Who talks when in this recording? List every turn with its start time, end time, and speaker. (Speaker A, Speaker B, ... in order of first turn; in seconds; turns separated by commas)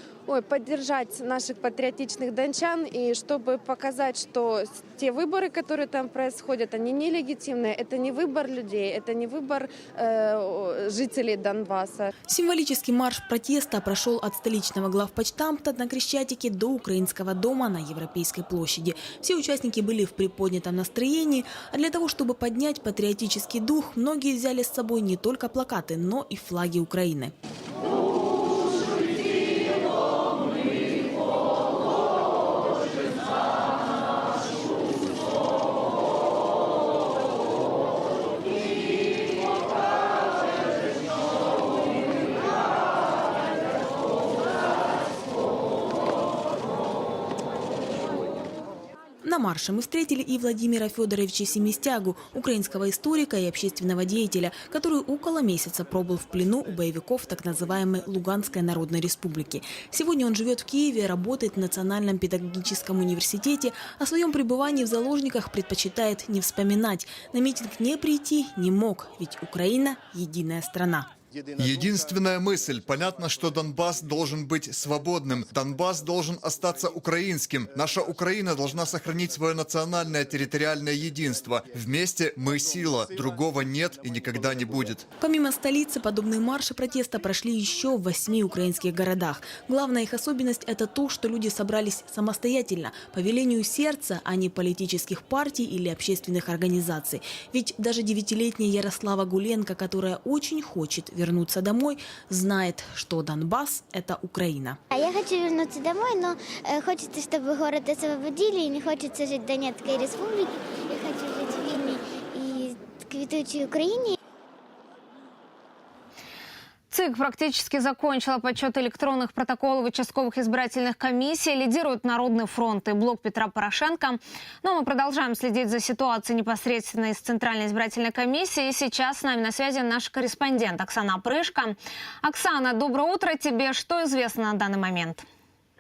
Speaker A: 0.3-12.1, Speaker B: 12.3-27.3, Speaker B: 49.2-71.1, Speaker C: 71.6-85.0, Speaker B: 85.2-104.8, Speaker D: 104.9-114.2, Speaker E: 116.9-135.2